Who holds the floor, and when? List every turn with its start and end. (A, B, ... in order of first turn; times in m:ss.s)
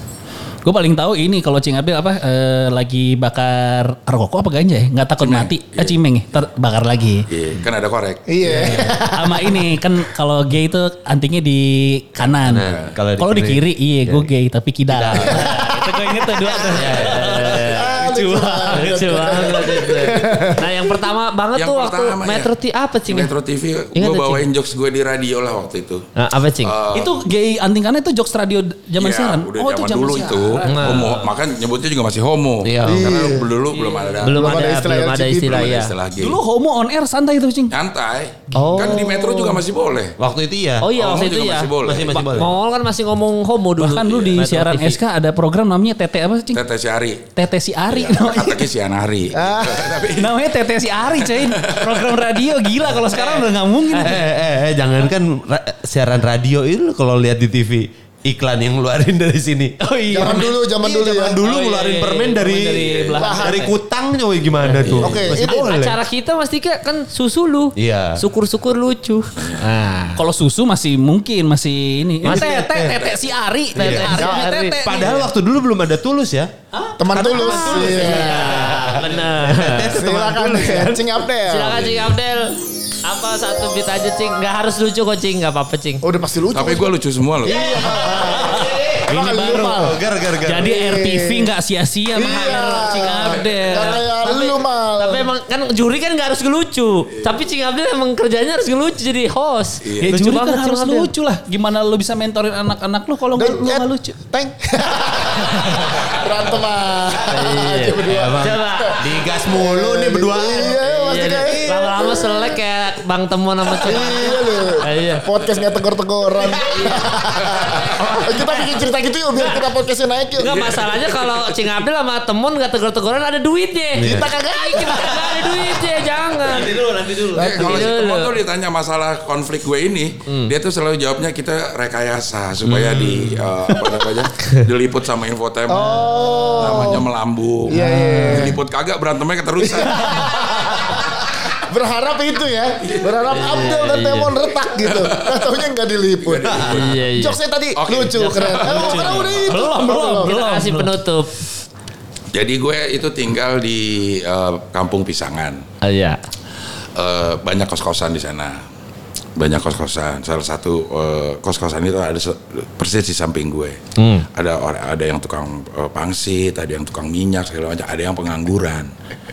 0:00.6-0:07.2 A
0:05.2-0:05.9 B
0:07.3-0:08.3 B
0:08.3-0:09.6 C
0:08.4-0:19.8 A
0:12.4-0:14.3 D
0:12.6-0:13.0 B
0:14.9-0:15.5 D
0:15.3-0:15.9 C
0:16.4-0:17.4 D
0:16.8-0:18.0 E
0:17.7-0:20.9 C
0:18.7-0:23.3 E
0:21.5-0:22.5 B
0:23.1-0:26.0 B
0:23.9-0:24.4 E
0:26.2-0:26.7 E
0:26.6-0:27.1 B
0:26.9-0:31.2 A
0:29.0-0:34.6 B
0:30.7-0:31.2 E
0:32.6-0:33.0 D
0:32.8-0:33.5 C
0:33.8-0:34.1 A
0:34.2-0:35.9 E
0:34.2-0:35.8 C
0:35.4-0:36.4 B
0:36.2-0:37.7 A
0:37.7-0:40.2 B
0:38.5-0:38.9 E
0:38.5-0:39.6 C
0:40.2-0:40.9 D
0:40.8-0:45.0 E
0:40.9-0:42.5 B
0:41.8-0:42.5 D
0:43.8-0:46.6 A
0:46.5-0:47.2 B
0:47.4-0:48.6 A
0:47.9-0:50.3 B
0:49.3-0:50.0 C
0:50.1-0:54.3 A
0:51.2-0:52.1 B
0:53.0-0:54.1 E
0:54.0-1:06.0 D
0:59.8-1:00.6 A
1:00.1-1:01.4 C
1:01.4-1:03.7 A
1:01.4-1:02.1 E
1:03.2-1:03.7 C
1:04.6-1:10.2 E
1:04.8-1:05.2 B
1:05.0-1:05.6 C
1:07.8-1:08.2 D
1:09.4-1:09.6 B
1:10.2-1:15.3 A
1:12.2-1:12.6 E
1:12.2-1:13.1 D
1:13.7-1:14.2 D
1:13.8-1:15.3 E
1:14.1-1:14.5 C
1:14.8-1:16.5 D
1:16.8-1:18.6 A
1:17.0-1:18.4 C
1:17.1-1:21.0 D
1:17.4-1:20.0 E
1:19.8-1:21.8 C
1:21.4-1:26.0 E
1:21.7-1:22.1 B
1:26.0-1:26.9 C
1:26.5-1:27.6 B
1:27.4-1:30.0 C
1:27.5-1:28.6 E
1:27.6-1:29.9 A
1:28.7-1:29.0 D
1:29.8-1:30.7 D
1:30.4-1:34.0 A
1:30.6-1:31.5 C
1:32.1-1:35.3 C
1:33.7-1:41.1 E
1:39.8-1:40.2 B
1:40.0-1:44.2 A
1:43.3-1:52.6 C
1:45.5-1:46.0 E
1:47.3-1:49.0 E
1:48.1-1:50.8 D
1:50.6-1:55.2 E
1:51.4-1:51.9 D
1:53.7-2:00.6 C
1:56.6-1:57.2 E
1:57.8-1:58.8 E
1:59.4-1:59.6 E
2:00.4-2:08.3 E
2:00.4-2:01.8 B
2:04.0-2:04.3 D
2:04.0-2:05.5 C
2:06.5-2:07.4 A
2:07.3-2:07.9 C
2:07.3-2:20.7 B
2:12.6-2:13.4 D
2:15.7-2:17.0 C
2:16.1-2:16.6 E
2:17.7-2:18.6 C
2:17.7-2:18.4 A
2:19.6-2:30.4 C
2:22.8-2:23.4 B
2:23.3-2:24.3 E
2:24.8-2:25.4 B
2:26.2-2:27.1 B
2:26.7-2:27.4 E
2:27.8-2:29.5 B
2:28.1-2:29.3 E
2:29.2-2:30.9 A
2:30.2-2:31.3 E
2:32.3-2:35.6 B
2:35.8-2:36.2 E
2:37.0-2:38.6 B
2:39.4-2:43.8 B
2:44.0-2:44.2 E
2:44.3-2:48.9 B